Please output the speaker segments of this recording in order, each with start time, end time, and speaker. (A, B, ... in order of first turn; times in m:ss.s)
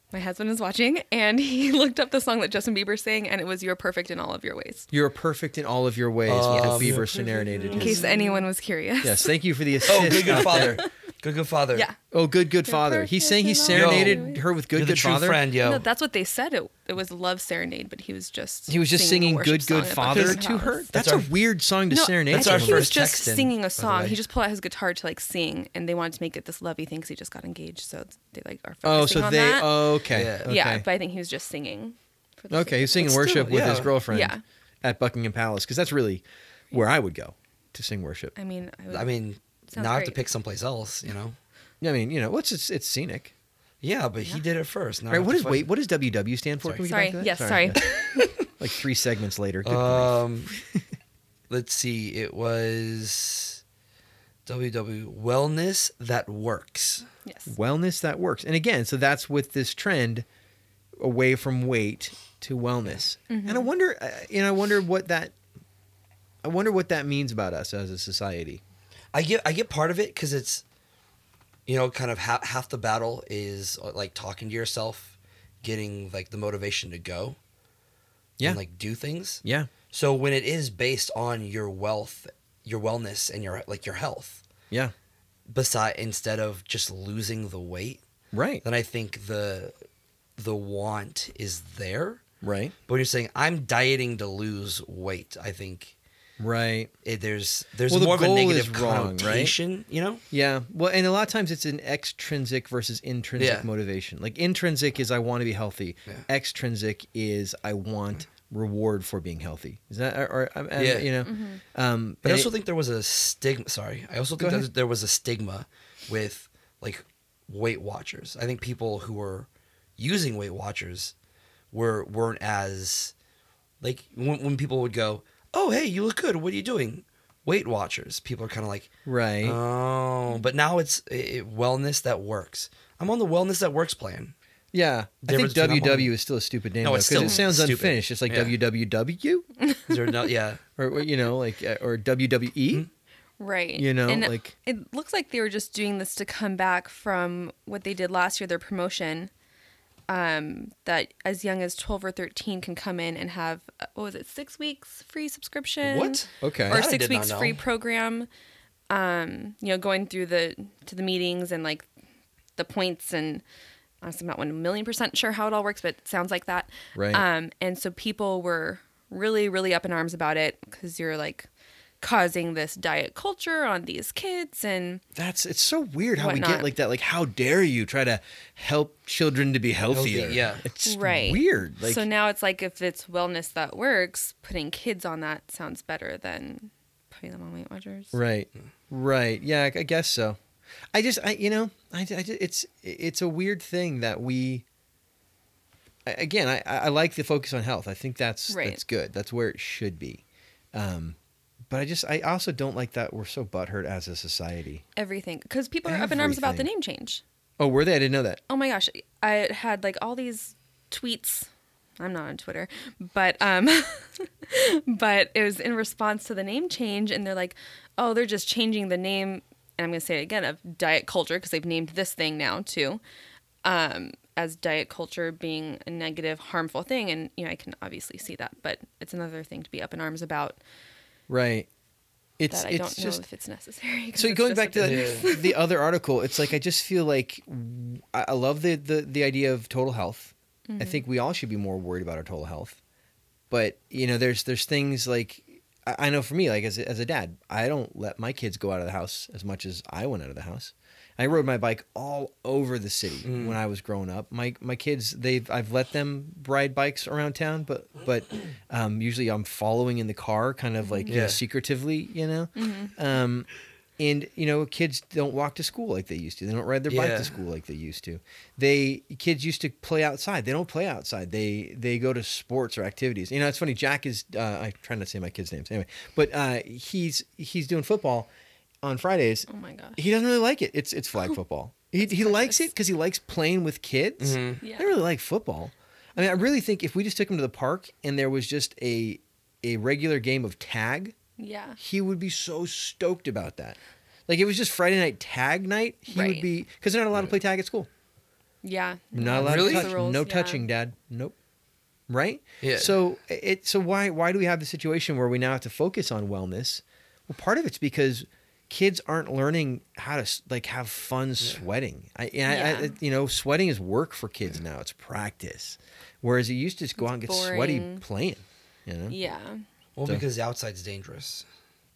0:00.1-0:04.9 A
0:04.9-0:08.1 B
0:06.2-0:08.2 C
0:06.5-0:09.3 A
0:09.0-0:10.8 B
0:09.8-0:10.9 A
0:09.9-0:11.9 C
0:12.1-0:15.4 B
0:12.6-0:14.4 A
0:13.7-0:15.8 C
0:15.6-0:20.9 A
0:18.7-0:23.1 B
0:20.1-0:20.4 C
0:20.9-0:21.3 C
0:21.9-0:34.4 A
0:22.3-0:24.2 C
0:28.8-0:30.8 B
0:30.1-0:30.5 C
0:32.5-0:38.3 B
0:33.2-0:34.0 C
0:38.3-0:39.1 A
0:38.9-0:41.4 C
0:39.7-0:40.2 A
0:41.8-0:43.3 B
0:43.8-0:45.7 C
0:45.1-0:50.8 B
0:46.6-0:46.9 C
0:46.9-0:48.2 A
0:47.8-0:48.5 C
0:49.6-0:50.5 C
0:51.5-0:53.6 C
0:54.4-0:57.0 C
0:57.2-0:57.5 A
0:57.5-1:00.2 B
1:01.0-1:05.3 B
1:03.3-1:03.7 A
1:06.4-1:08.6 B
1:09.1-1:10.6 C
1:11.7-1:17.4 C
1:18.4-1:24.4 C
1:19.4-1:19.7 B
1:25.5-1:28.0 C
1:28.3-1:28.6 B
1:28.6-1:29.7 C
1:30.4-1:32.2 C
1:32.4-1:32.7 B
1:32.9-1:35.9 C
1:36.4-1:36.9 B
1:37.0-1:40.2 C
1:37.9-1:39.5 B
1:40.3-1:52.5 B
1:43.4-1:43.7 C
1:50.8-1:51.2 C
1:51.2-1:51.6 A
1:52.2-2:01.1 C
1:54.4-1:54.7 B
2:01.7-2:03.1 C
2:03.8-2:08.9 C
2:09.0-2:09.6 B
2:09.4-2:14.3 C
2:14.7-2:19.5 B
2:15.2-2:16.1 C
2:16.8-2:18.6 C
2:19.9-2:20.6 C
2:20.8-2:22.8 B
2:23.4-2:29.3 A
2:23.8-2:24.5 B
2:30.1-2:38.3 A
2:35.8-2:37.6 C
2:36.4-2:36.8 B
2:38.9-2:41.9 A
2:42.6-2:43.4 A
2:44.0-2:51.5 A
2:46.9-2:47.2 B
2:52.0-2:55.0 A
2:55.1-3:02.0 B
2:56.1-2:56.7 A
2:59.9-3:00.6 C
3:00.8-3:08.2 A
3:08.1-3:10.4 B
3:10.9-3:14.6 B
3:16.0-3:20.2 B
3:18.5-3:18.8 A
3:20.7-3:21.2 B
3:21.7-3:24.8 B
3:25.0-3:27.2 A
3:25.8-3:26.7 B
3:27.6-3:28.4 B
3:28.5-3:43.0 A
3:43.6-3:50.6 A
3:51.3-3:51.7 B
3:52.4-3:53.2 B
3:52.5-3:55.6 A
3:54.2-4:02.8 B
3:54.8-3:55.3 C
4:00.7-4:01.0 A
4:03.5-4:38.3 B
4:13.2-4:13.6 C
4:20.8-4:21.1 A
4:21.1-4:21.4 C
4:22.6-4:23.0 A
4:26.9-4:27.3 C
4:38.8-4:51.1 B
4:39.5-4:40.0 A
4:42.0-4:42.7 A
4:44.2-4:44.6 C
4:44.6-4:45.0 A
4:51.4-4:51.8 A
4:51.8-4:57.9 B
4:56.1-4:56.5 A
4:58.6-5:00.6 A
4:59.1-5:01.4 B
4:59.3-4:59.9 C
5:02.1-5:19.2 B
5:02.6-5:02.9 C
5:12.5-5:13.0 A
5:17.0-5:18.0 A
5:19.1-5:19.6 A
5:20.0-5:21.4 C